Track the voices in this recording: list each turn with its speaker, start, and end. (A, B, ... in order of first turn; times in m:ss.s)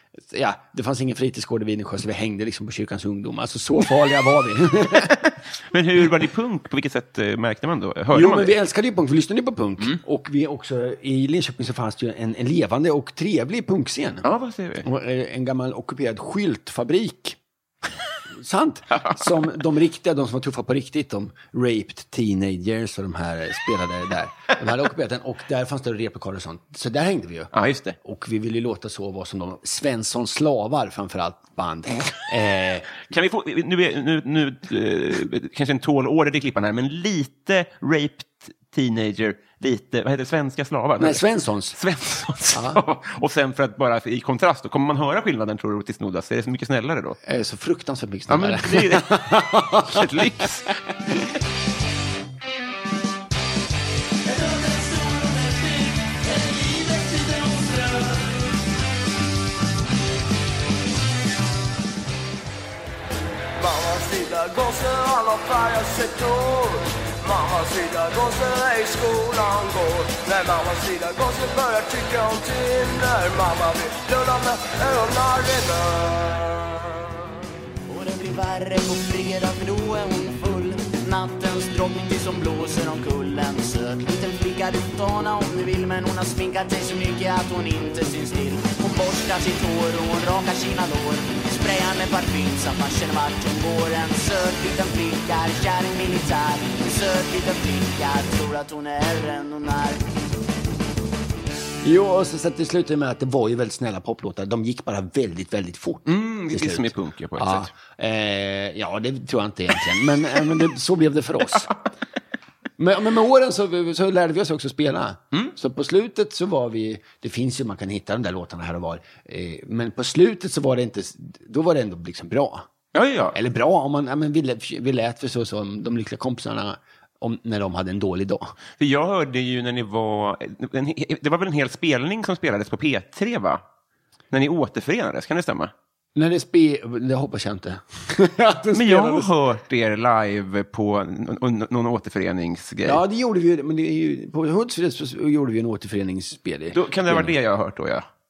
0:00.3-0:05.2 A
0:05.1-0:08.5 B
0:08.1-0:14.3 A
0:14.2-0:14.8 B
0:14.8-0:17.4 A
0:18.4-0:33.0 A
0:27.5-0:28.0 B
0:33.0-0:47.2 B
0:41.0-0:41.8 A
0:42.5-0:42.8 A
0:47.2-0:50.7 A
0:48.3-0:49.1 B
0:49.8-0:50.7 B
1:03.6-1:16.7 C
1:17.9-1:40.1 D
1:41.8-1:51.7 A
1:46.0-1:47.7 B
1:52.8-2:02.7 A
2:02.9-2:03.4 B
2:03.3-2:08.5 A
2:08.8-2:13.6 B
2:14.3-2:15.7 B
2:16.1-2:19.3 A
2:18.7-2:23.0 B
2:22.8-2:27.3 A
2:26.7-2:28.1 B